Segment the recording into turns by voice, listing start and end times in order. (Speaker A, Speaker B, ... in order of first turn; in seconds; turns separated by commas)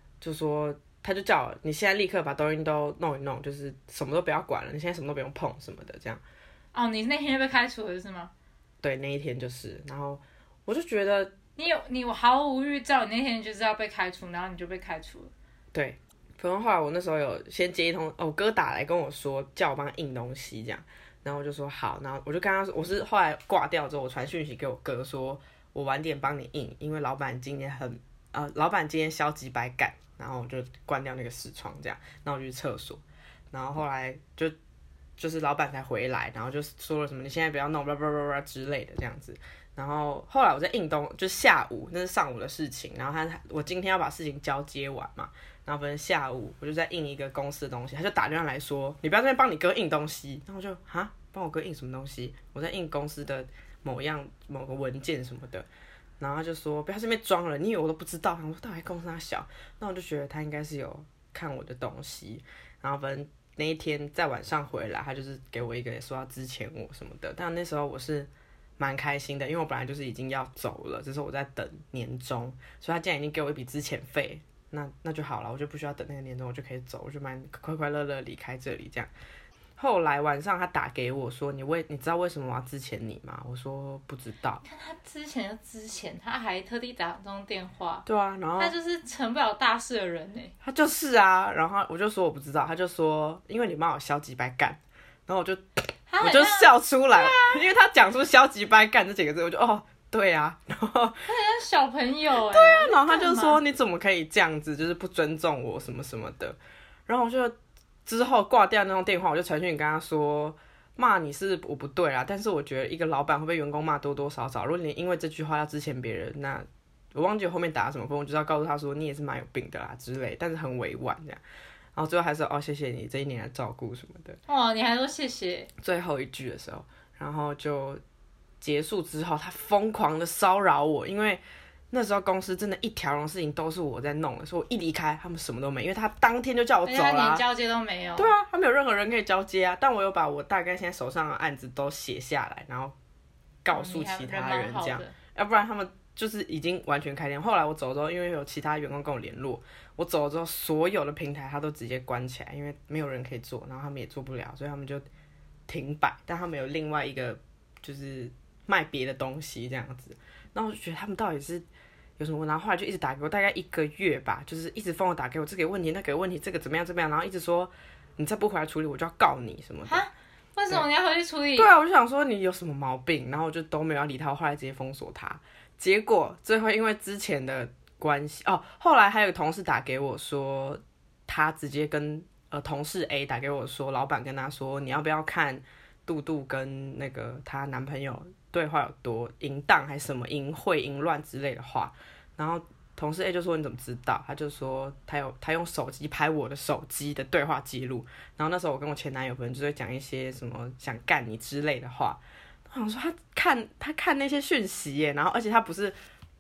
Speaker A: 0.2-6.2, Speaker B: 6.7-8.3, Speaker A: 8.8-11.3, Speaker B: 11.6-15.3, Speaker A: 15.7-34.5, Speaker A: 35.2-55.6, Speaker A: 56.2-79.1, Speaker A: 79.8-84.6, Speaker B: 84.6-88.0, Speaker A: 88.0-88.7, Speaker B: 88.6-90.5, Speaker A: 90.6-101.3, Speaker B: 96.1-97.6, Speaker B: 101.3-103.6, Speaker A: 102.5-107.5, Speaker A: 108.0-121.4, Speaker A: 122.0-124.4, Speaker B: 124.5-125.7, Speaker A: 125.8-128.0, Speaker A: 128.6-137.4, Speaker B: 136.8-138.3, Speaker A: 138.2-142.9, Speaker A: 143.6-155.1, Speaker B: 143.7-145.1, Speaker A: 155.7-161.6, Speaker A: 162.2-170.0, Speaker B: 169.9-171.7, Speaker A: 171.6-205.9